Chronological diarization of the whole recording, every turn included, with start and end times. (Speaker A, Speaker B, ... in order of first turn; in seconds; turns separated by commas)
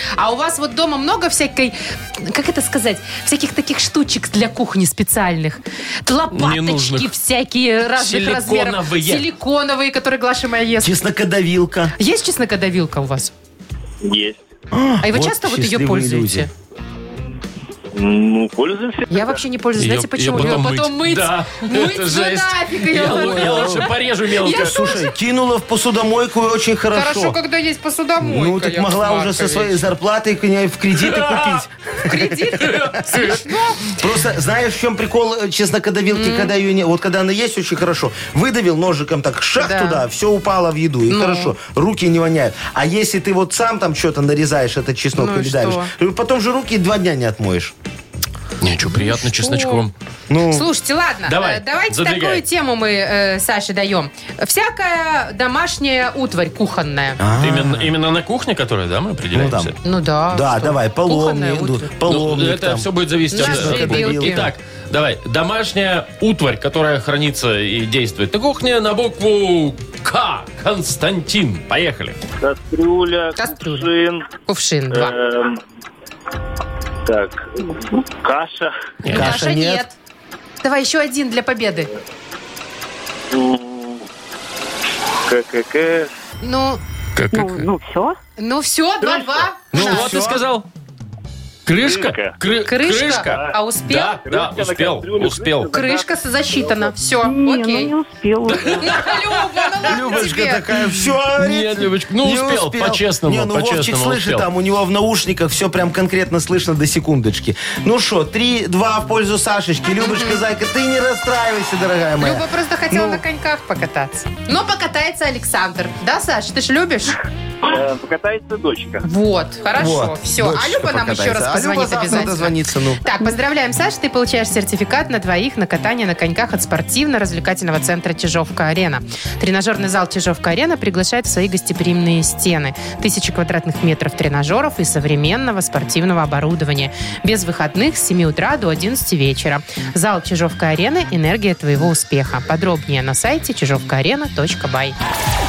Speaker A: 0.2-11.0, Speaker B: 6.3-7.1, Speaker B: 8.0-9.3, Speaker C: 10.8-11.9, Speaker A: 12.0-13.3, Speaker D: 14.0-14.4, Speaker C: 14.7-16.5, Speaker A: 15.0-16.5, Speaker D: 17.9-19.4, Speaker A: 19.1-23.9, Speaker B: 19.8-24.8, Speaker C: 23.1-23.9, Speaker A: 24.4-25.1, Speaker C: 24.4-27.4, Speaker A: 26.9-29.8, Speaker C: 28.2-32.8, Speaker B: 31.0-31.6, Speaker A: 32.0-33.9, Speaker B: 32.6-33.5, Speaker C: 33.9-47.7, Speaker A: 36.1-36.5, Speaker A: 39.6-40.0, Speaker A: 41.1-41.5, Speaker A: 45.1-45.9, Speaker B: 48.6-49.9, Speaker A: 48.9-49.8, Speaker C: 50.3-50.7, Speaker A: 50.5-57.2, Speaker B: 51.2-52.4, Speaker C: 57.2-57.9, Speaker B: 57.4-59.8, Speaker C: 59.3-59.7, Speaker A: 59.8-61.9, Speaker C: 60.3-64.5, Speaker B: 62.0-72.2, Speaker A: 63.3-64.5, Speaker D: 72.4-74.2, Speaker A: 73.3-73.9, Speaker A: 74.5-75.2, Speaker D: 74.9-75.6, Speaker D: 77.0-78.7, Speaker B: 79.0-79.3, Speaker C: 79.1-79.8, Speaker A: 79.1-79.9, Speaker A: 80.6-81.9, Speaker D: 83.3-84.0, Speaker D: 85.2-86.1, Speaker A: 86.4-86.8, Speaker B: 87.1-87.7, Speaker E: 87.3-88.2, Speaker A: 88.4-90.1, Speaker B: 89.7-90.7, Speaker C: 89.7-90.4, Speaker B: 91.7-95.7, Speaker D: 91.8-92.4, Speaker A: 92.6-94.2, Speaker D: 94.2-96.9, Speaker A: 95.7-97.9, Speaker E: 97.2-98.9, Speaker B: 98.5-100.1, Speaker A: 98.8-100.7, Speaker C: 99.8-113.2, Speaker B: 101.3-104.5, Speaker A: 110.0-110.4, Speaker A: 112.2-117.2, Speaker D: 117.6-119.0, Speaker A: 119.0-144.9, Speaker C: 119.8-123.0